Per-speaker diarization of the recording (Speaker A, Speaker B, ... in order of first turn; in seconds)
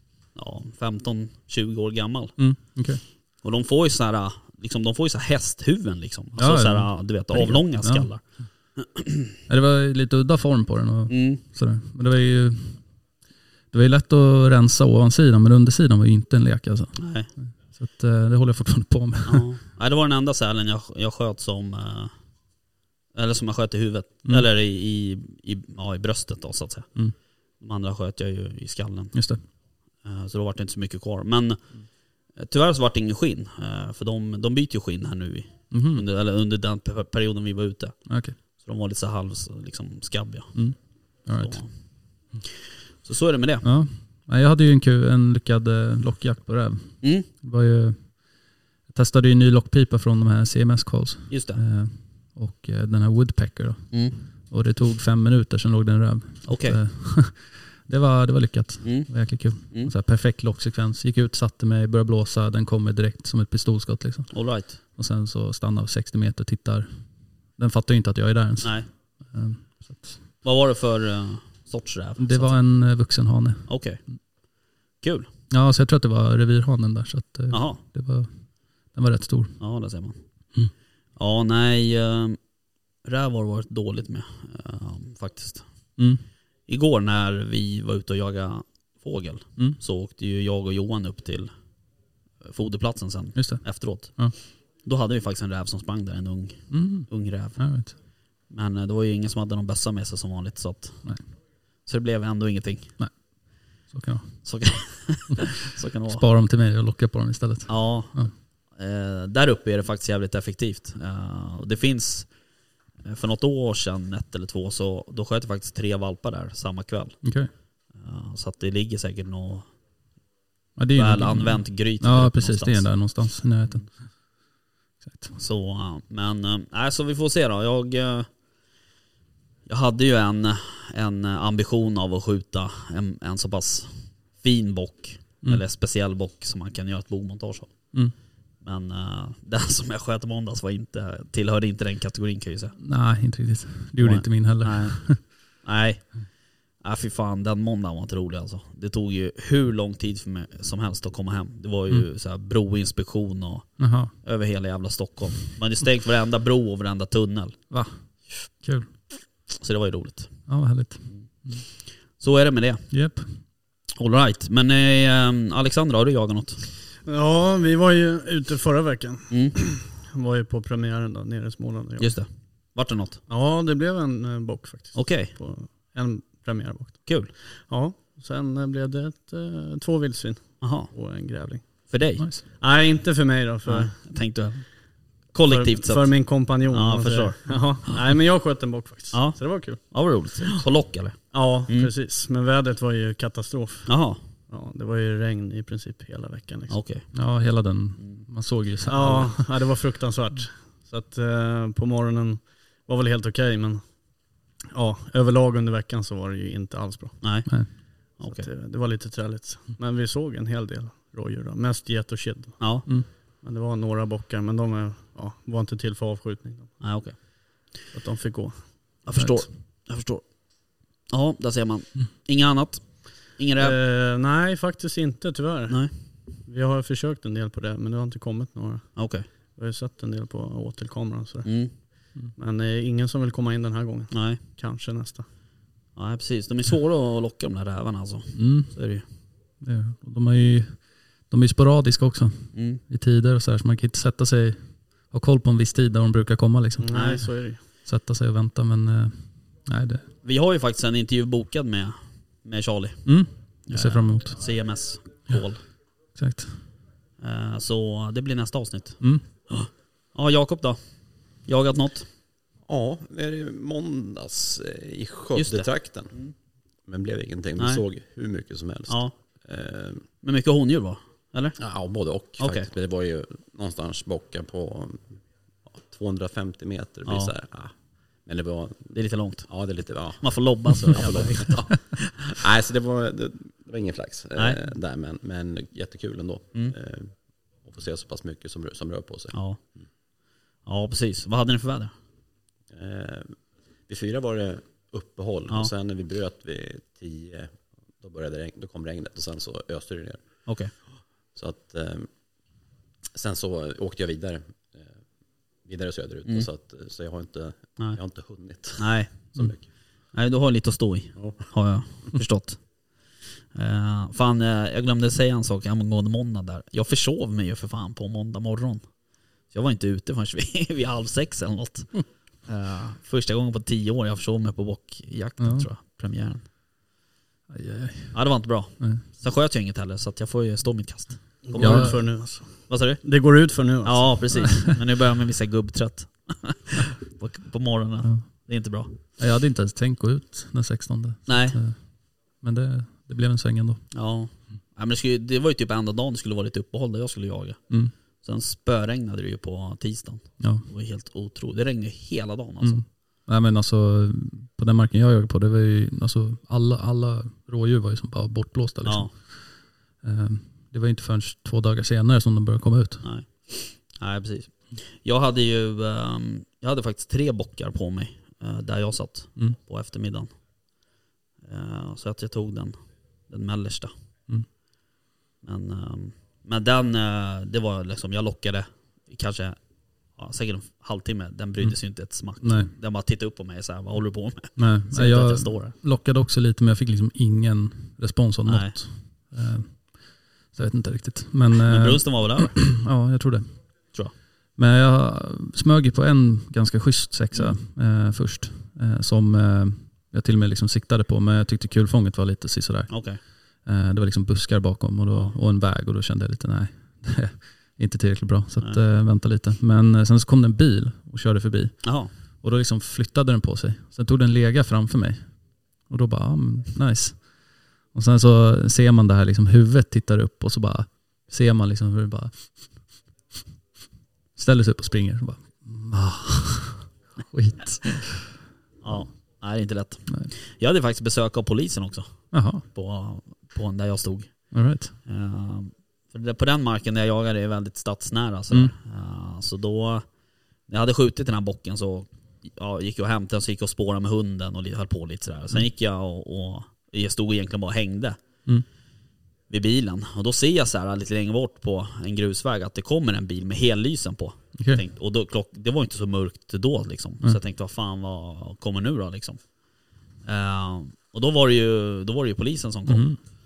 Speaker A: 0.3-2.6, 3.4-8.2, 8.8-9.2, 11.1-11.4, 16.9-17.3, 19.2-22.1, 23.1-27.0, 27.6-43.6, 47.0-47.3, 51.3-51.6, 53.9-54.2, 56.4-56.8, 58.8-59.9, 64.3-64.8, 68.6-68.9, 70.4-72.6, 73.7-74.0, 75.0-75.3, 77.5-77.8, 79.6-80.2, 81.2-82.4, 83.0-85.7, 86.7-91.5, 92.4-97.6, 98.5-101.1, 101.8-102.9, 104.4-106.2, 107.7-108.2, 108.7-112.3, 113.0-117.3, 117.9-119.7, 121.0-122.9, 125.3-128.3, 129.7-138.0, 138.6-142.8, 144.0-157.6, 159.6-160.3, 161.8-162.9, 163.9-166.6, 169.3-169.6, 172.0-173.2, 174.9-175.3, 177.1-177.3, 180.6-180.9, 181.9-182.2, 183.7-188.0, 189.1-191.9, 193.9-194.2, 196.7-197.1, 198.0-198.2, 207.2-208.4, 212.6-212.8, 216.8-217.1, 219.0-220.4, 221.1-223.8, 228.9-229.3, 231.4-231.7, 234.1-234.4, 235.9-239.0, 242.5-242.8, 246.9-247.2, 250.2-255.6, 257.2-260.8, 261.4-262.1, 265.3-266.3, 268.9-269.1, 270.2-271.6, 272.4-272.7, 277.1-277.3, 278.9-279.5, 280.2-281.6, 289.3-289.6, 290.6-291.9, 300.4-300.7, 308.8-309.5, 310.1-312.6, 313.5-318.9, 319.5-326.4, 328.1-338.9, 341.3-341.6, 343.9-352.8, 358.8-359.1, 363.0-370.3, 371.4-373.9, 375.4-379.6, 380.1-385.8, 388.4-388.8, 391.7-392.6, 397.3-397.6, 402.9-403.2, 411.8-412.1, 428.8-440.1, 440.7-448.2, 449.5-459.5, 460.2-463.1
Speaker B: 2.4-3.0, 6.3-8.4, 9.5-12.9, 13.7-19.5, 29.1-29.4, 35.7-36.0, 38.0-38.4, 40.5-41.6, 43.6-70.2, 72.2-73.7, 75.5-78.3, 78.9-79.6, 86.0-86.2, 93.3-94.3, 96.7-97.9, 103.0-104.7, 106.1-108.3, 117.2-117.5, 120.8-124.0, 125.0-125.3, 142.8-145.2, 153.8-154.1, 157.7-158.9, 160.5-161.6, 162.9-163.3, 197.1-199.5, 219.2-219.5, 238.3-238.7, 239.6-247.3, 247.8-250.0, 253.0-254.4, 256.1-256.6, 259.0-259.2, 325.4-325.7, 327.5-329.0, 331.6-332.0, 339.2-343.9, 350.4-350.6, 352.6-363.1, 382.4-382.7, 384.6-393.9, 394.6-422.9, 424.4-428.3, 430.1-430.3, 432.3-432.6, 434.5-434.9, 438.5-438.7, 454.6-454.8, 462.9-463.2
Speaker C: 167.1-172.1, 173.3-181.9, 182.6-184.0, 185.5-190.1, 191.3-196.8, 198.9-203.8, 204.7-207.2, 208.2-216.8, 217.9-218.8, 223.6-235.2, 246.8-247.6, 331.5-334.3
Speaker D: 262.7-266.1, 266.9-270.0, 271.6-275.1, 275.7-278.9, 279.5-287.1, 287.6-289.4, 292.7-293.3, 293.9-300.4, 301.3-302.1, 303.1-304.9, 305.6-309.6, 311.1-311.5